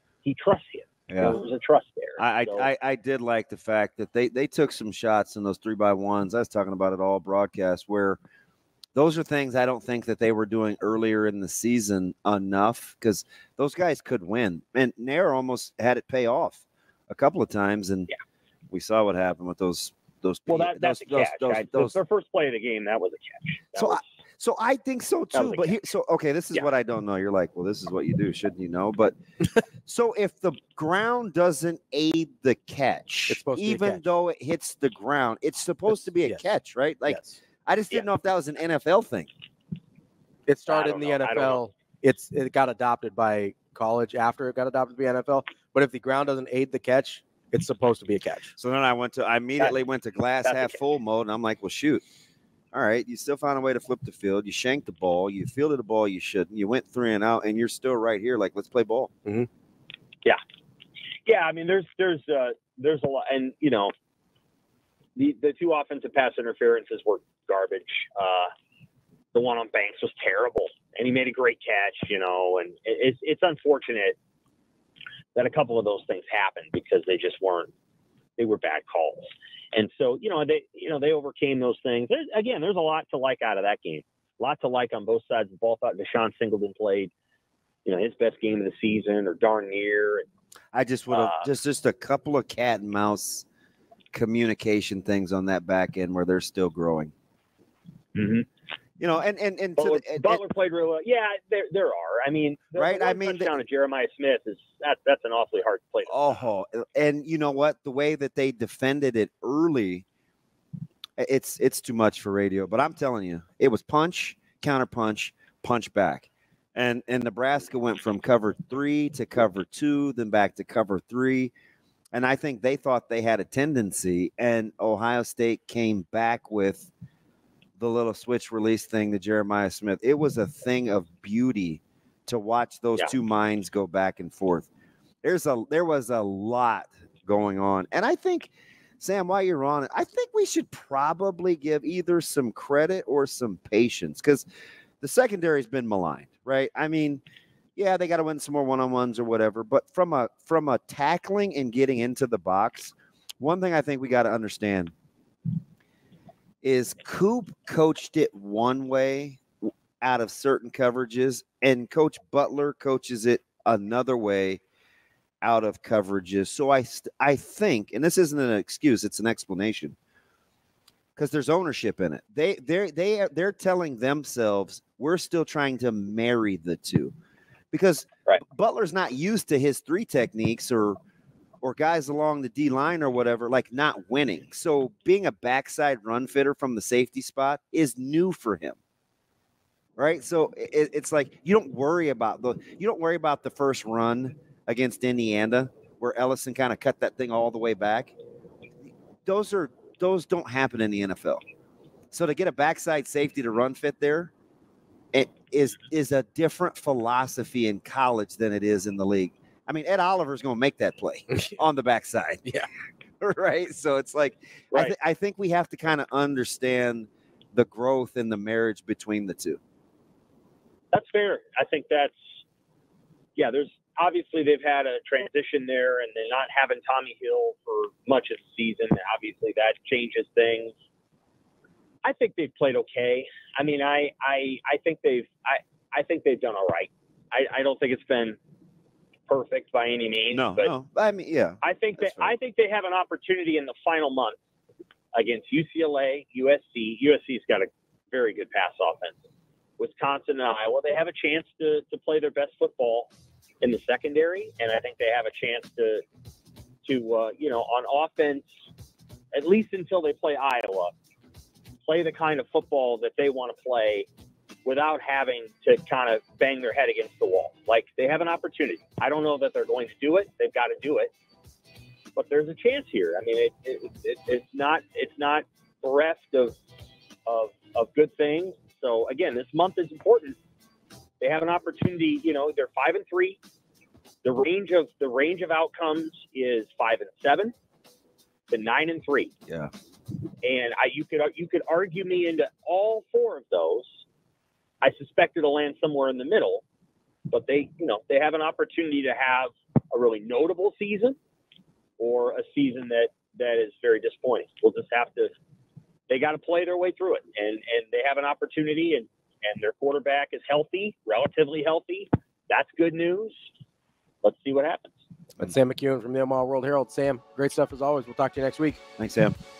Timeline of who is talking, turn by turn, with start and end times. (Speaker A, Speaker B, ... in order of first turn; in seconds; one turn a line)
Speaker A: 0.2-2.7
Speaker B: 1.1-1.4
Speaker B: 2.2-8.2
Speaker B: 8.9-18.1
Speaker B: 18.7-21.9
Speaker A: 20.5-24.1
Speaker B: 23.8-29.1
Speaker A: 25.3-25.8
Speaker B: 29.9-39.3
Speaker C: 33.3-34.0
Speaker C: 37.1-37.4
Speaker C: 40.5-48.5
Speaker A: 40.7-41.6
Speaker B: 48.6-52.0
Speaker A: 50.4-50.8
Speaker B: 52.7-59.1
Speaker A: 61.3-63.9
Speaker A: 65.2-68.5
Speaker A: 69.3-74.2
Speaker A: 75.3-77.7
Speaker A: 78.4-87.1
Speaker A: 87.8-90.3
Speaker B: 90.7-93.5
Speaker A: 91.1-91.5
Speaker B: 94.1-97.1
Speaker A: 98.2-98.5
Speaker B: 99.0-100.4
Speaker A: 99.8-106.3
Speaker B: 102.8-103.5
Speaker B: 106.1-110.0
Speaker B: 111.2-121.5
Speaker B: 122.1-126.9
Speaker B: 127.8-134.7
Speaker B: 135.2-144.5
Speaker B: 145.0-147.2
Speaker B: 147.8-154.9
Speaker B: 156.6-159.4
Speaker B: 160.0-164.6
Speaker B: 165.4-170.0
Speaker B: 171.2-177.1
Speaker B: 177.7-181.0
Speaker B: 181.6-188.8
Speaker B: 190.0-198.1
Speaker B: 199.2-201.4
Speaker B: 202.1-204.3
Speaker B: 205.1-212.6
Speaker B: 213.2-219.6
Speaker A: 220.9-222.1
Speaker A: 223.4-230.7
Speaker A: 232.0-238.4
Speaker A: 239.3-240.7
Speaker B: 240.3-242.3
Speaker A: 241.6-244.4
Speaker A: 245.1-249.2
Speaker A: 249.8-253.1
Speaker A: 253.6-256.0
Speaker A: 256.9-258.5
Speaker A: 259.3-260.9
Speaker A: 261.9-264.1
Speaker A: 264.6-271.1
Speaker A: 272.1-276.6
Speaker A: 277.3-280.4
Speaker A: 281.2-283.4
Speaker A: 284.2-287.5
Speaker A: 288.5-289.3
Speaker A: 290.4-293.9
Speaker A: 294.8-296.6
Speaker A: 297.3-301.2
Speaker A: 302.0-305.3
Speaker A: 306.1-313.4
Speaker A: 314.2-314.9
Speaker C: 315.4-318.8
Speaker B: 319.0-319.4